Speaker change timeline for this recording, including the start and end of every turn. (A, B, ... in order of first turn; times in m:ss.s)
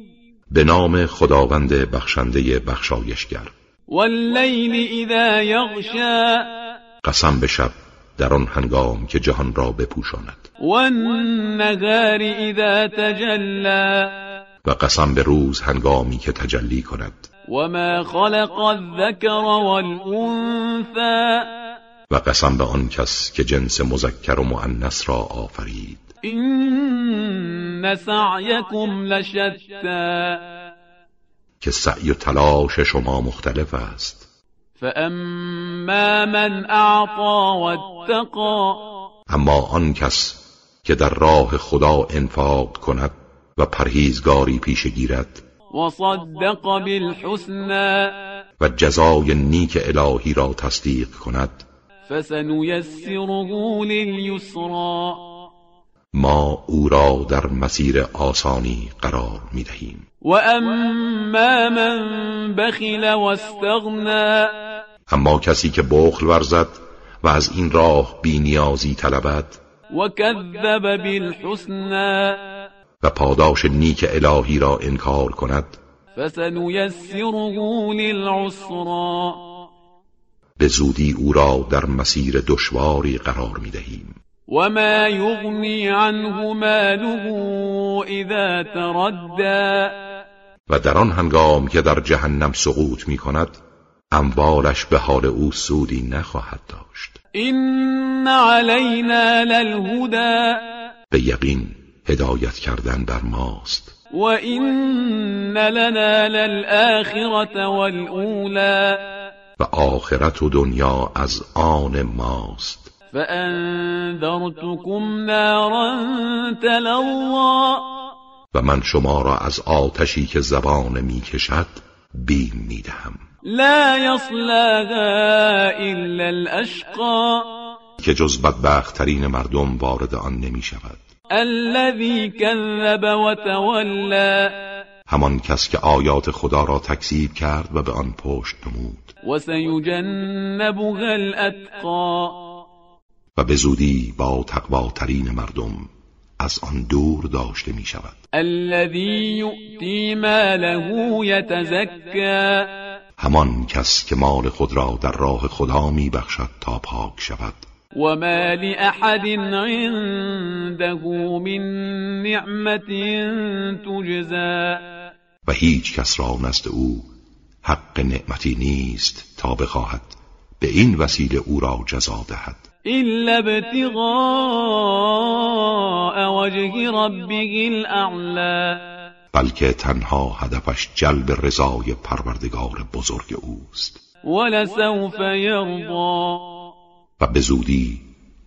0:00.5-0:03.5 A
0:03.9-0:06.5 B
0:07.0-0:10.4 A
0:10.6-0:14.2 B
0:14.6-0:17.2 A
0:17.5-0:21.5 B
0:22.1-0:26.1 A
0:26.2-0:30.4 B
0:31.6-0:34.2 A
0:34.8-0:38.9 B
0:39.3-0:45.4 A
0:45.7-0:48.1 B
0:48.6-0:51.6 A
0:52.1-0:55.2 B
0:56.1-1:00.0 A
1:00.2-1:04.6 B
1:05.1-1:09.6 A
1:09.9-1:12.6 B
1:13.0-1:15.8 A
1:16.1-1:19.4 B
1:20.6-1:24.2 A
1:24.5-1:30.0 B
1:30.7-1:33.6 A
1:34.1-1:37.2 A
1:37.3-1:40.7 B
1:41.1-1:43.9 A
1:44.1-1:49.1 B
1:49.6-1:52.9 A
1:53.1-1:57.9 B
1:58.5-2:03.2 A
2:03.4-2:07.6 B
2:08.0-2:11.0 A
2:11.3-2:14.6 B
2:15.1-2:19.1 A
2:19.2-2:22.4 B
2:23.3-2:28.2 A
2:28.3-2:32.7 B
2:33.2-2:37.6 A
2:37.9-2:44.8 B
2:45.4-2:47.1 A
2:47.6-2:52.6 A
2:52.9-2:58.8 B
2:59.3-3:04.0 A
3:04.2-3:06.6 B
3:07.2-3:08.0 A